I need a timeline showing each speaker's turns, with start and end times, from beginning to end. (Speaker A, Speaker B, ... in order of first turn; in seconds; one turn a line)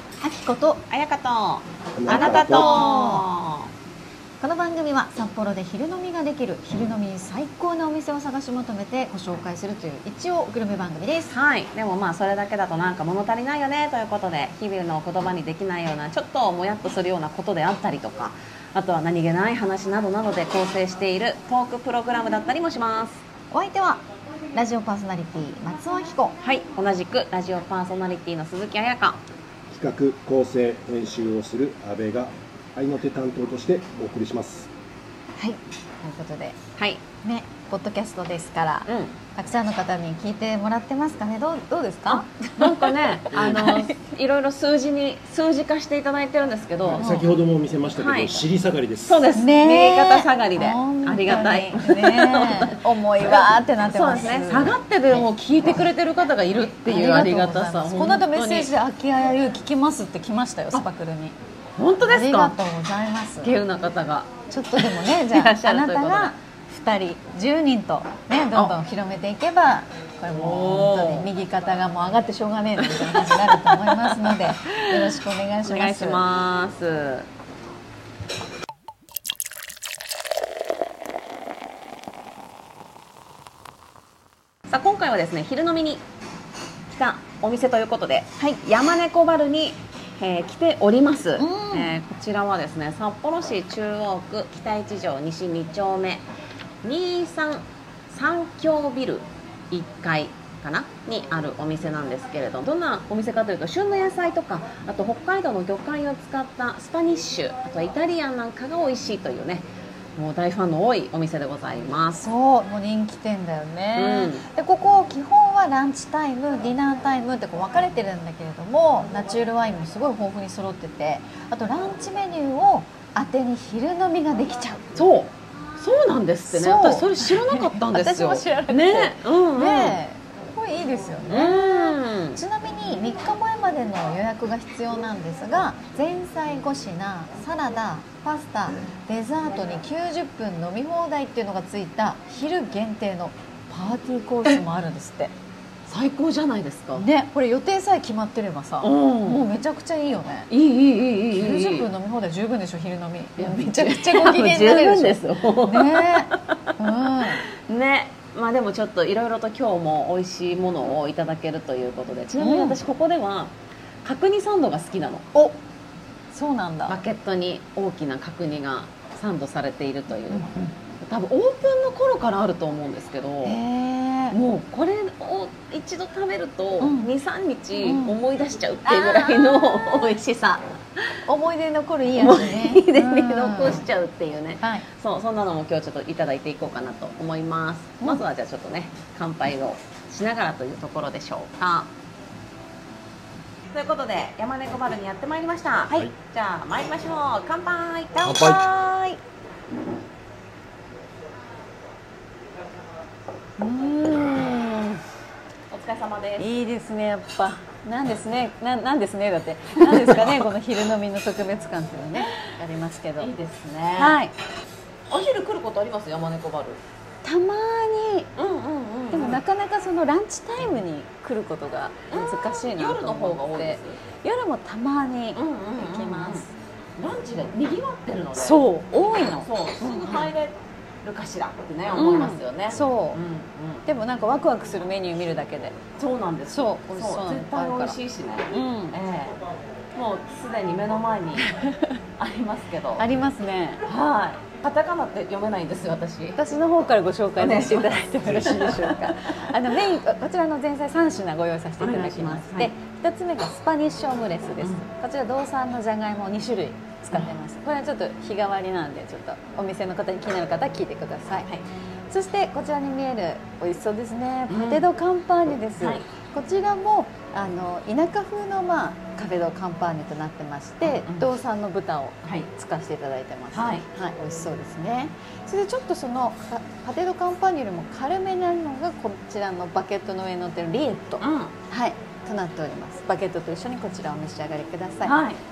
Speaker A: 0.2-0.8
Speaker B: 0.9-3.7
Speaker C: 2.0-2.9
Speaker A: 2.1-3.3
Speaker A: 4.4-11.3
Speaker B: 11.3-23.2
Speaker A: 23.5-26.4
Speaker B: 26.4-29.2
Speaker C: 29.7-34.7
Speaker A: 35.4-36.6
Speaker B: 36.8-37.0
Speaker A: 37.2-43.9
Speaker B: 38.9-39.1
Speaker B: 42.1-47.2
Speaker C: 46.9-49.3
Speaker A: 47.0-47.2
Speaker B: 47.9-48.5
Speaker B: 49.0-58.7
Speaker A: 49.3-54.7
Speaker A: 56.5-61.4
Speaker B: 61.8-62.5
Speaker A: 62.0-63.5
Speaker B: 63.4-64.3
Speaker A: 64.5-76.2
Speaker B: 65.3-66.3
Speaker B: 70.3-71.3
Speaker B: 72.8-77.3
Speaker B: 84.7-86.0
Speaker B: 86.9-96.2
Speaker A: 91.4-92.0
Speaker B: 96.8-112.2
Speaker A: 112.2-125.0
Speaker B: 114.0-114.4
Speaker B: 125.0-130.0
Speaker A: 126.5-145.3
Speaker B: 131.3-132.4
Speaker B: 145.9-147.0
Speaker A: 146.9-150.5
Speaker B: 148.8-149.5
Speaker B: 150.5-151.9
Speaker A: 151.3-157.4
Speaker B: 153.4-156.7
Speaker B: 157.3-163.5
Speaker A: 162.4-162.8
Speaker B: 164.0-165.3
Speaker A: 166.3-167.0
Speaker B: 166.9-173.6
Speaker A: 173.4-174.4
Speaker B: 174.3-180.6
Speaker A: 176.8-177.1
Speaker A: 177.7-178.2
Speaker A: 178.8-179.6
Speaker A: 181.2-183.8
Speaker B: 182.1-191.9
Speaker B: 193.7-199.1
Speaker A: 203.6-205.0
Speaker B: 205.7-206.5
Speaker A: 206.4-213.3
Speaker B: 213.2-214.2
Speaker A: 214.0-214.3
Speaker B: 215.1-216.8
Speaker A: 217.2-218.3
Speaker B: 218.3-219.4
Speaker A: 219.1-226.5
Speaker B: 222.1-224.0
Speaker B: 225.3-228.7
Speaker A: 228.4-230.3
Speaker B: 229.2-233.8
Speaker A: 231.9-233.2
Speaker A: 233.8-235.8
Speaker B: 236.0-239.4
Speaker A: 236.5-238.0
Speaker A: 238.5-239.0
Speaker B: 239.9-241.5
Speaker A: 241.4-241.9
Speaker B: 242.2-243.1
Speaker A: 243.0-243.8
Speaker B: 243.8-246.4
Speaker A: 246.3-261.5
Speaker B: 247.4-249.4
Speaker B: 251.8-252.7
Speaker A: 262.1-285.2
Speaker B: 264.5-264.8
Speaker B: 270.9-271.3
Speaker B: 272.2-272.5
Speaker B: 273.5-273.8
Speaker B: 281.2-281.5
Speaker B: 285.0-285.4